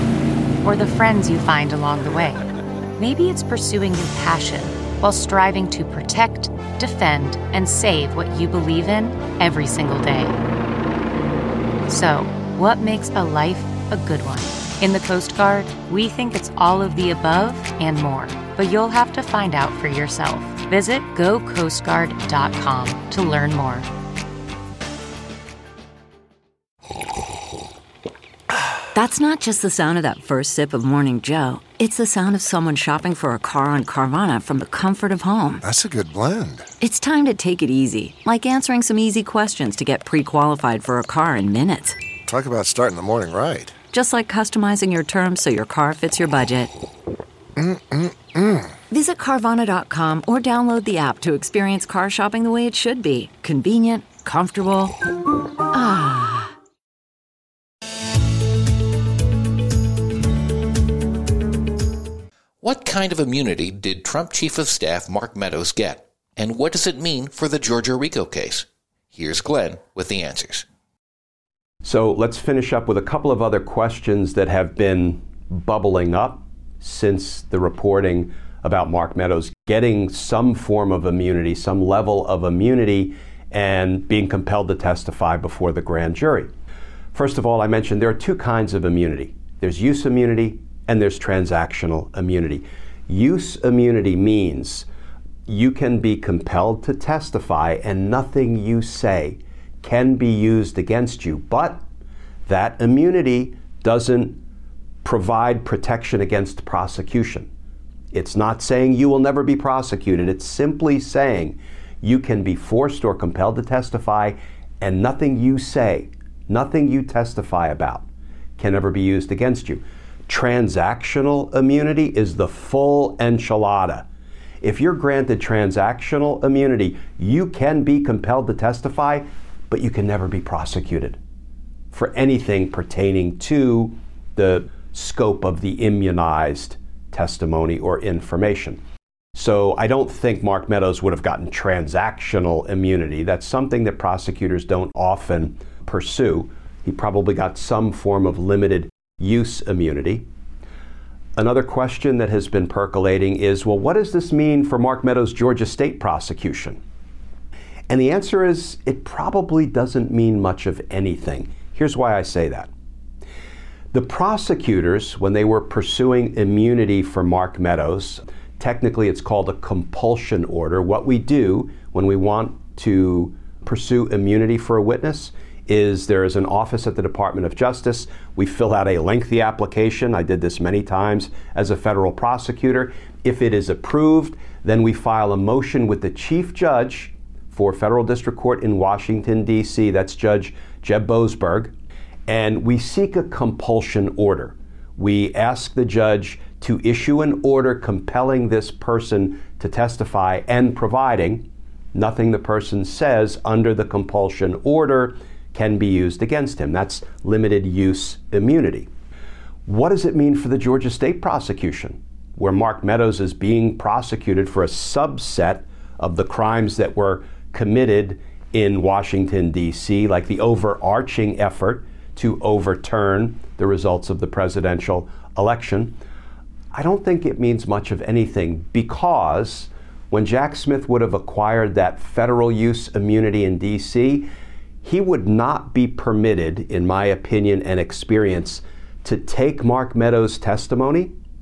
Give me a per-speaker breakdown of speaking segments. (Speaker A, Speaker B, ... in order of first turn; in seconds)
Speaker A: 0.6-2.4, 3.0-10.4, 11.9-23.9
Speaker B: 28.9-35.6, 36.8-42.0, 43.9-46.7, 48.9-55.0, 55.7-56.5
Speaker C: 35.6-36.7, 42.2-43.8, 47.6-48.8
Speaker D: 62.6-70.7
Speaker E: 71.8-86.5, 87.1-94.9, 95.5-101.8, 102.5-104.4, 105.0-107.5, 108.1-118.1, 118.6-124.1, 124.6-131.2, 131.9-138.8, 139.3-150.3, 151.4-156.8, 157.9-162.7, 163.9-191.7, 192.3-208.9, 209.7-226.0, 226.7-234.3, 234.8-241.1